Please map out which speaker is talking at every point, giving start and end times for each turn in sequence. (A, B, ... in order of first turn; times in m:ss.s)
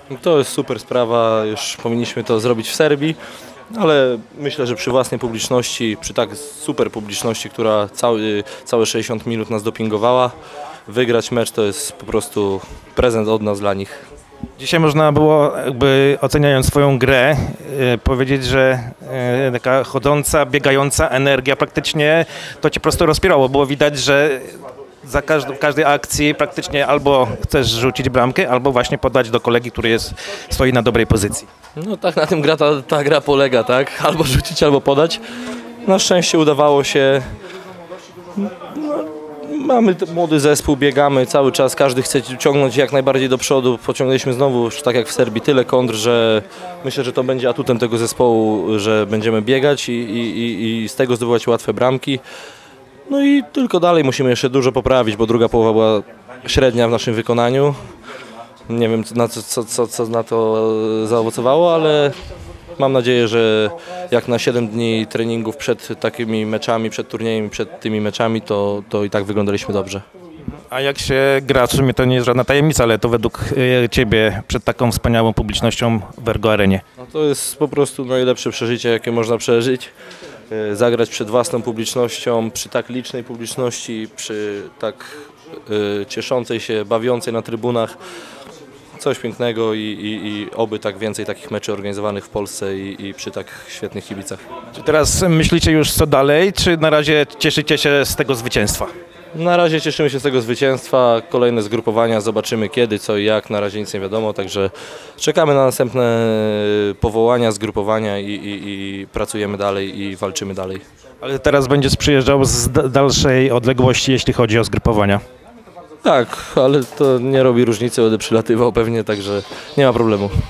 0:00.1-0:03.2 A
0:03.7-0:10.3 A
0:10.9-0:14.0 A
0:14.6-0:31.5 B
0:31.8-0:35.2 A
0:35.8-0:37.3 A
0:38.3-0:52.2 A
0:53.1-0:57.8 A
0:58.7-1:02.2 A
1:02.8-1:10.0 A
1:10.7-1:16.8 B
1:17.0-1:19.9 A
1:20.5-1:28.0 A
1:28.9-1:34.4 A
1:34.7-1:38.9 B
1:39.3-1:50.8 A
1:51.2-1:55.2 B
1:56.0-2:00.3 A